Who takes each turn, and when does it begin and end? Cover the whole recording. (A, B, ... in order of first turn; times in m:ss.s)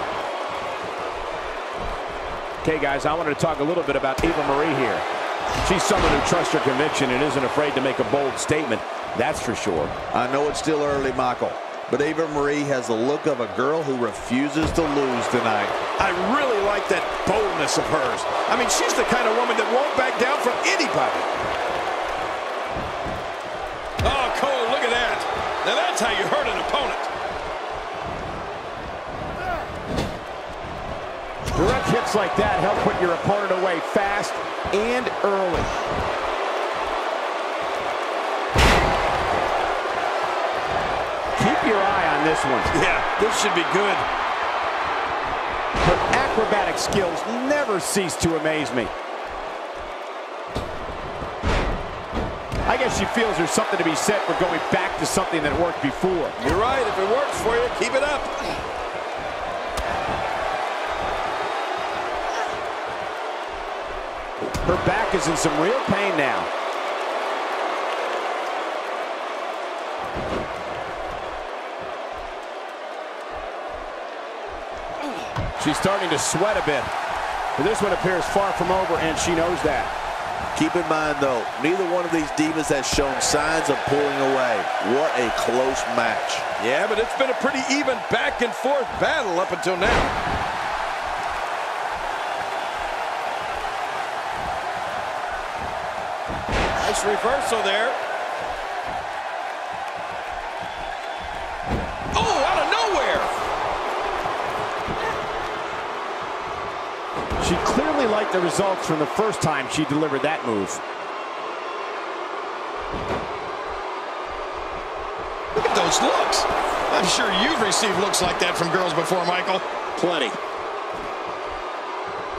0:02.6-0:05.0 A
0:05.6-0:09.9 A
0:10.1-0:15.8 B
0:16.0-0:21.3 C
0:24.0-0:27.1 C
0:31.5-0:35.8 A
0:41.4-0:42.7 A
0:42.7-0:44.0 C
0:45.8-0:48.9 A
0:52.6-0:56.4 A
0:56.4-0:58.5 C
1:04.6-1:06.5 A
1:15.6-1:16.9 A
1:17.6-1:19.9 A
1:20.5-1:26.4 B
1:26.6-1:30.1 C
1:36.8-1:38.0 C
1:42.1-1:43.3 C
1:47.4-1:50.8 A
1:55.5-1:59.6 C
2:00.0-2:00.4 A